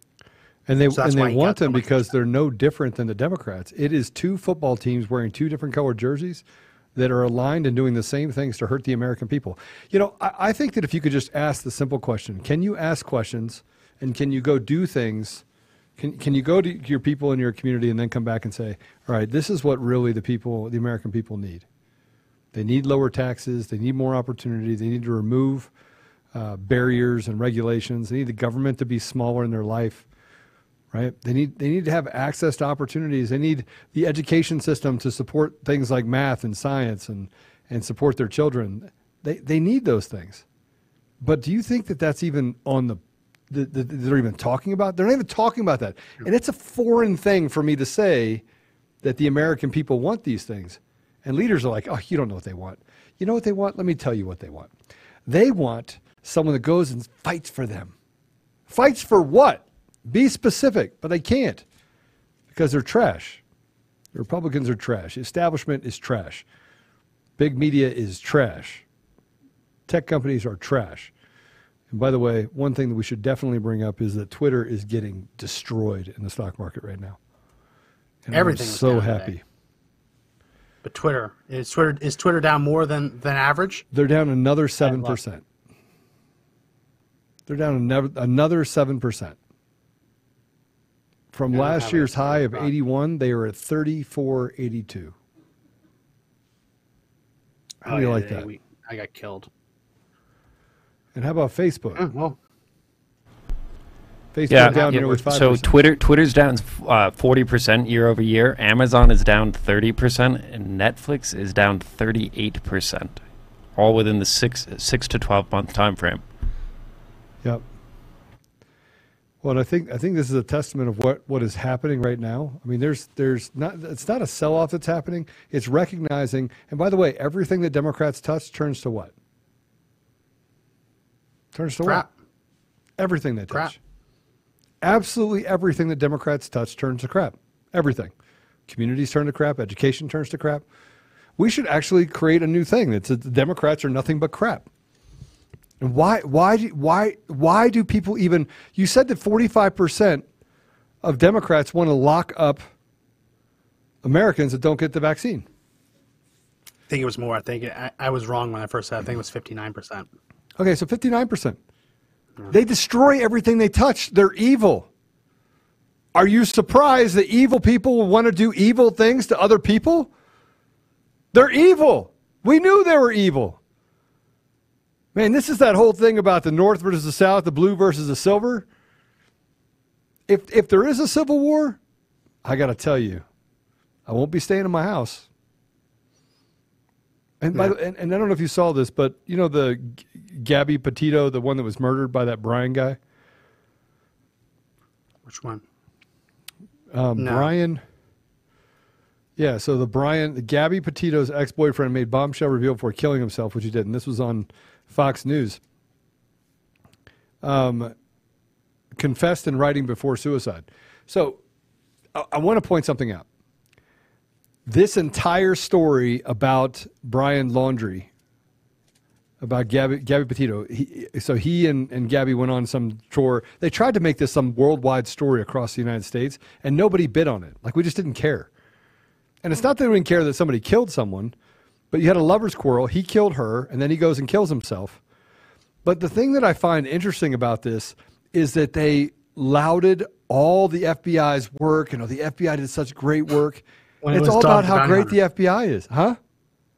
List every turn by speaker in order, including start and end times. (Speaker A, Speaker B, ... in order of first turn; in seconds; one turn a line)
Speaker A: 0.7-6.4
Speaker B: 0.9-2.1
Speaker A: 6.9-15.4
Speaker A: 16.0-21.6
Speaker A: 22.5-25.7
Speaker A: 26.3-30.1
Speaker A: 30.9-40.4
Speaker A: 41.2-48.4
Speaker A: 49.0-54.7
Speaker A: 55.2-57.9
Speaker A: 58.7-61.6
Speaker A: 62.5-63.4
Speaker A: 64.1-66.4
Speaker A: 67.4-68.8
Speaker A: 69.9-71.1
Speaker A: 71.9-77.2
Speaker A: 78.2-79.4
Speaker B: 78.3-79.3
Speaker B: 80.8-83.8
Speaker A: 83.9-85.4
Speaker B: 84.8-85.2
Speaker A: 87.5-89.3
Speaker A: 91.3-95.2
Speaker B: 91.5-92.7
Speaker B: 97.8-99.5
Speaker A: 97.8-98.5
Speaker A: 101.1-102.0
Speaker B: 102.0-102.4
Speaker A: 104.3-105.8
Speaker C: 104.5-113.2
Speaker B: 104.5-105.0
Speaker C: 113.7-116.2
Speaker A: 119.4-129.1
Speaker A: 131.5-132.0
Speaker A: 133.0-133.8
Speaker B: 133.5-133.7
Speaker A: 134.8-138.1
Speaker A: 138.7-140.6
Speaker A: 141.4-144.7
Speaker A: 145.8-150.2
Speaker A: 151.0-152.6
Speaker A: 154.0-155.5
Speaker B: 156.9-160.1
Speaker A: 160.6-161.6
Speaker A: 162.5-164.9
Speaker A: 166.1-170.1
Speaker A: 171.3-173.6
Speaker A: 175.1-178.7
Speaker A: 180.3-181.8
Speaker A: 182.4-183.2
Speaker A: 184.1-185.3
Speaker A: 187.4-193.0
Speaker B: 195.2-195.6
Speaker A: 196.9-197.8
Speaker B: 197.2-197.5
Speaker A: 199.4-205.6
Speaker A: 207.4-207.9
Speaker A: 209.0-211.4
Speaker A: 212.1-213.2
Speaker A: 214.7-218.1
Speaker A: 219.4-228.5
Speaker A: 229.4-231.3
Speaker A: 231.9-235.0
Speaker A: 235.8-246.2
Speaker B: 244.0-245.2